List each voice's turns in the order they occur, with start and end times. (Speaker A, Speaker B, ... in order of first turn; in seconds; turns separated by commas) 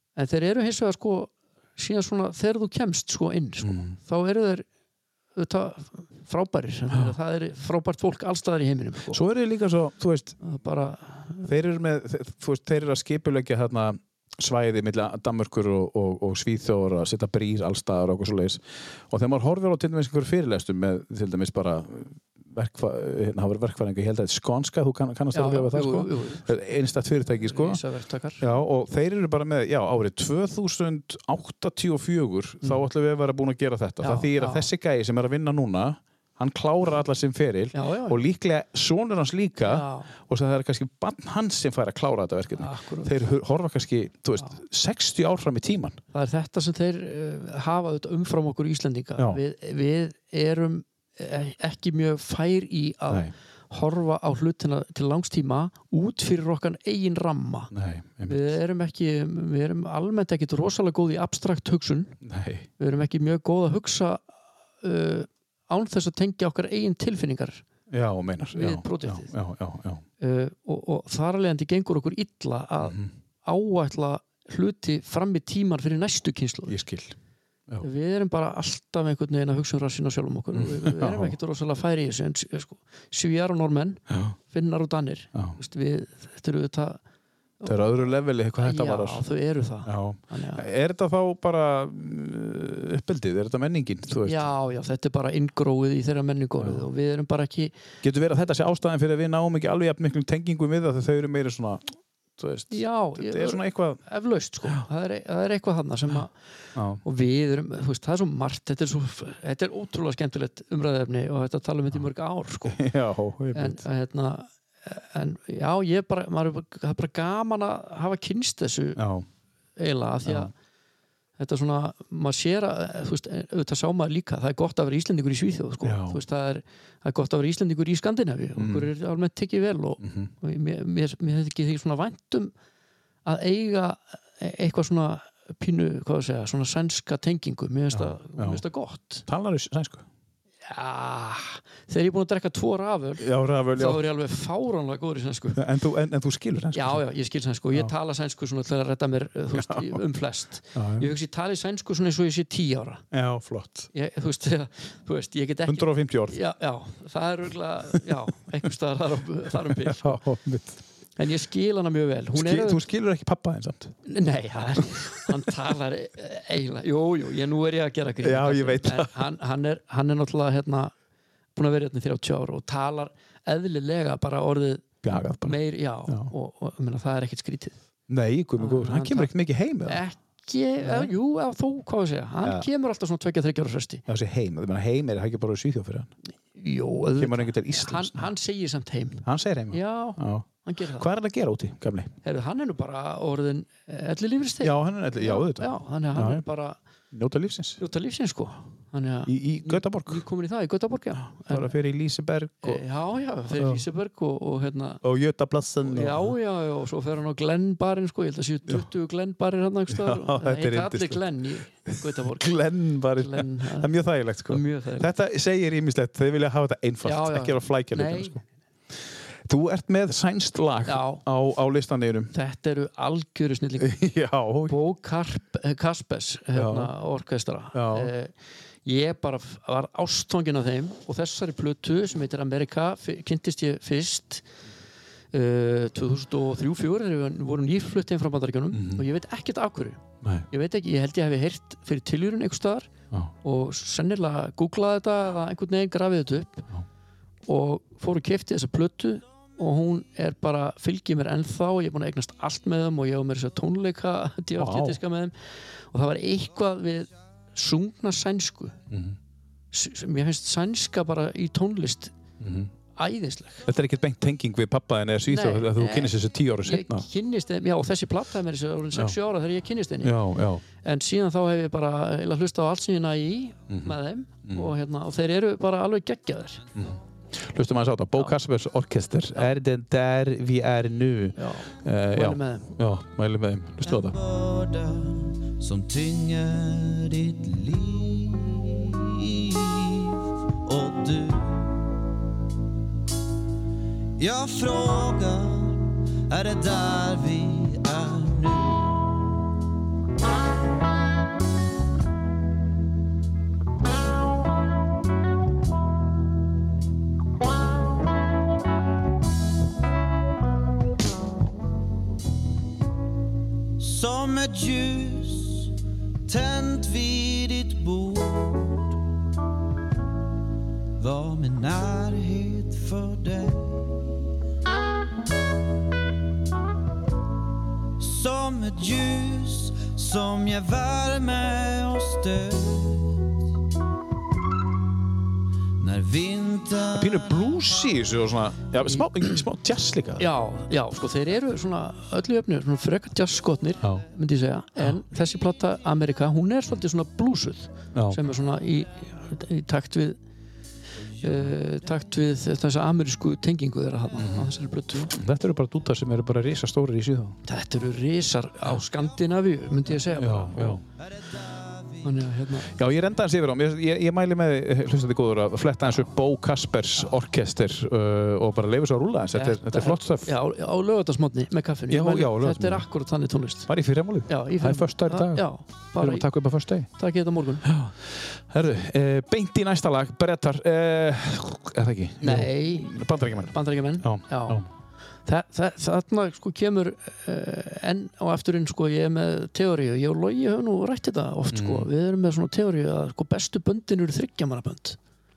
Speaker A: 0.1-4.7, Speaker B: 3.6-4.0, Speaker A: 5.3-9.2, Speaker B: 9.1-10.4, Speaker A: 10.4-11.5, Speaker B: 11.4-27.8, Speaker A: 25.3-26.6, Speaker A: 27.4-28.4, Speaker B: 28.4-46.0, Speaker A: 34.0-34.7, Speaker A: 37.7-38.2, Speaker A: 39.6-40.1, Speaker A: 42.6-43.1, Speaker A: 46.1-57.7, Speaker B: 57.7-58.5, Speaker A: 58.2-62.1, Speaker B: 62.2-62.7, Speaker A: 62.8-64.2, Speaker A: 64.8-67.6, Speaker B: 67.9-70.0, Speaker A: 68.5-69.3, Speaker A: 70.2-76.8, Speaker B: 72.8-73.1, Speaker B: 76.7-77.2, Speaker A: 77.8-87.0, Speaker B: 80.5-81.3, Speaker B: 84.1-84.3, Speaker B: 87.7-89.2, Speaker A: 88.6-90.7, Speaker B: 89.8-94.5, Speaker A: 94.2-97.7, Speaker B: 98.0-104.0, Speaker A: 102.7-106.3, Speaker B: 106.8-107.0, Speaker A: 107.0-112.8, Speaker B: 112.7-113.8, Speaker A: 113.5-119.0, Speaker B: 119.0-119.3, Speaker A: 119.8-120.5, Speaker B: 120.2-120.5, Speaker A: 121.4-132.5, Speaker B: 125.8-126.2, Speaker B: 128.6-128.9, Speaker B: 130.0-130.3, Speaker A: 133.2-139.2, Speaker B: 137.9-138.6, Speaker B: 139.3-140.1, Speaker A: 140.7-145.6, Speaker B: 143.2-144.1, Speaker B: 145.5-147.0, Speaker A: 146.7-153.0, Speaker B: 149.5-150.0, Speaker B: 150.7-151.1, Speaker B: 153.1-153.9, Speaker A: 153.9-160.2, Speaker B: 155.7-156.4, Speaker B: 159.6-160.8, Speaker A: 161.2-162.8, Speaker B: 162.3-163.9, Speaker A: 164.1-170.9, Speaker B: 168.2-169.1, Speaker A: 171.6-177.8, Speaker B: 175.0-176.3, Speaker B: 178.1-180.0, Speaker A: 178.6-179.3, Speaker A: 179.8-184.0, Speaker B: 180.8-181.1, Speaker B: 184.1-186.1, Speaker A: 186.5-191.1, Speaker B: 187.2-188.3, Speaker B: 189.2-192.1, Speaker A: 192.2-196.8, Speaker B: 194.6-196.4, Speaker B: 197.1-197.8, Speaker A: 197.8-201.7, Speaker B: 199.2-200.2, Speaker B: 201.3-202.8, Speaker A: 202.6-205.0, Speaker B: 203.5-203.8, Speaker B: 205.0-206.3, Speaker A: 205.8-212.6, Speaker B: 209.9-211.3, Speaker B: 211.9-218.4, Speaker A: 213.1-213.9, Speaker A: 214.5-215.1, Speaker A: 217.0-218.4, Speaker B: 219.4-222.3, Speaker A: 220.8-221.2, Speaker A: 222.3-224.0, Speaker B: 223.8-224.7, Speaker A: 224.7-228.3, Speaker B: 226.5-226.9, Speaker B: 227.7-228.1, Speaker A: 228.8-234.4, Speaker A: 235.3-242.9, Speaker B: 238.7-239.0, Speaker B: 240.2-240.5, Speaker A: 243.4-246.7, Speaker A: 247.5-258.8, Speaker B: 254.6-255.0, Speaker B: 258.9-259.2, Speaker A: 259.7-262.1, Speaker B: 262.4-262.7, Speaker A: 262.9-263.6, Speaker B: 263.6-267.1, Speaker A: 265.3-270.2, Speaker B: 270.0-270.6, Speaker A: 270.8-276.6, Speaker B: 273.7-274.7, Speaker B: 276.7-284.1, Speaker A: 281.4-282.7, Speaker C: 283.9-291.9, Speaker C: 294.2-299.3, Speaker C: 313.8-315.7, Speaker C: 316.2-318.9, Speaker C: 321.0-324.1, Speaker C: 328.0-333.2, Speaker C: 335.8-337.5, Speaker B: 336.9-340.3, Speaker A: 338.9-339.4, Speaker A: 340.2-350.2, Speaker B: 347.9-348.2, Speaker A: 351.2-355.1, Speaker B: 354.2-357.4, Speaker A: 357.4-360.8, Speaker B: 360.0-360.8, Speaker C: 360.9-362.2, Speaker A: 362.0-362.7, Speaker B: 362.6-370.3, Speaker A: 369.3-373.7, Speaker B: 371.9-372.9, Speaker B: 373.7-375.5, Speaker A: 374.3-376.3, Speaker B: 376.0-376.9, Speaker A: 376.9-377.7, Speaker B: 377.6-384.7, Speaker A: 382.2-384.6, Speaker A: 385.2-395.0, Speaker B: 391.5-391.9